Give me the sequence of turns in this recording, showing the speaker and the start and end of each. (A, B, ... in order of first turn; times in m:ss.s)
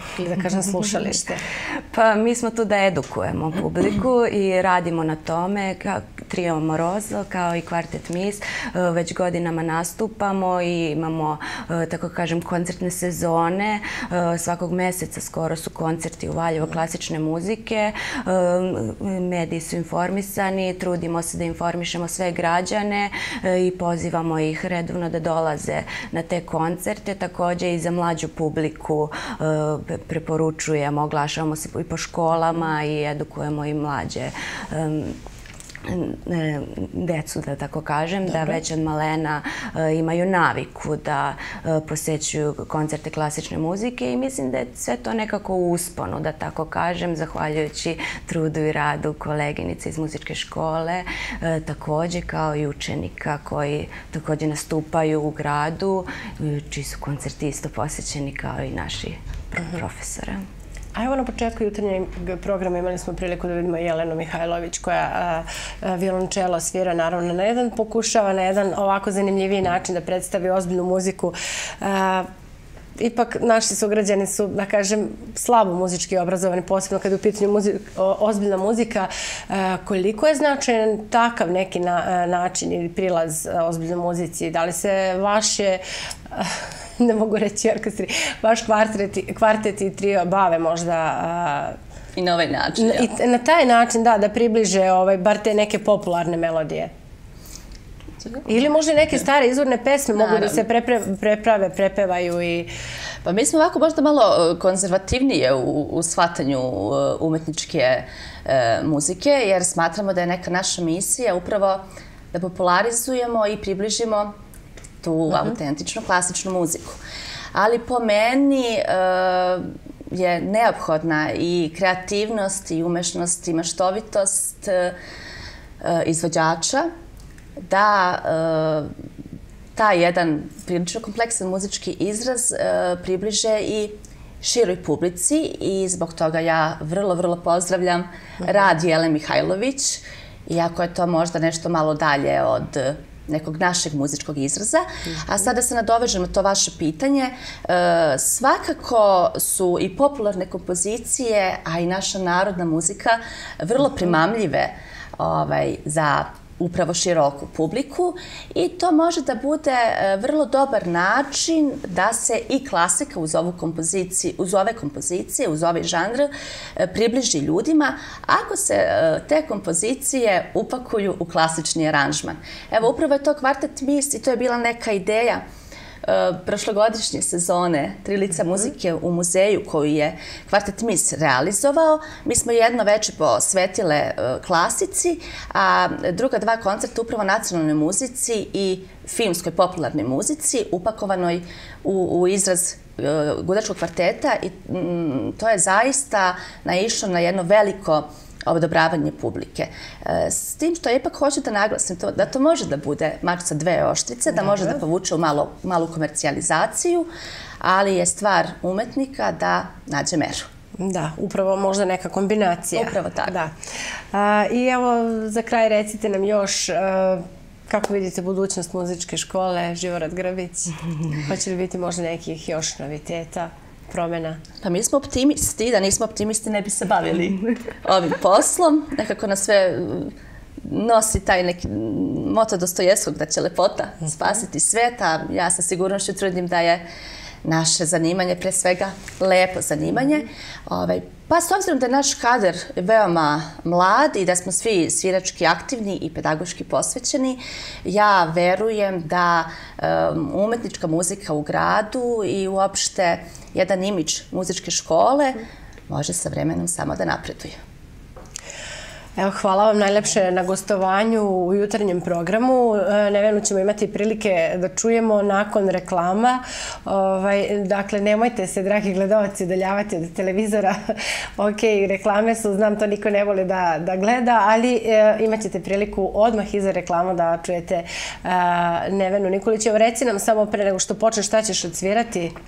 0:00.2-0:01.4 A
0:01.9-0:35.2 B
0:35.8-1:00.4 B
1:01.0-1:12.3 A
1:13.0-1:31.8 A
1:32.2-1:33.1 C
1:32.8-1:36.9 A
1:38.4-1:42.7 A
1:40.2-1:40.6 C
1:43.2-1:54.3 C
1:55.0-1:57.0 C
1:57.5-2:05.0 C
2:05.8-2:06.9 C
2:07.6-2:08.9 C
2:09.8-2:55.4 C
2:56.0-3:27.1 C
3:27.6-3:30.5 C
3:30.8-3:33.5 A
3:32.8-3:33.4 C
3:34.1-3:44.4 A
3:44.6-3:56.8 C
3:57.4-4:17.6 C
4:19.2-4:42.3 A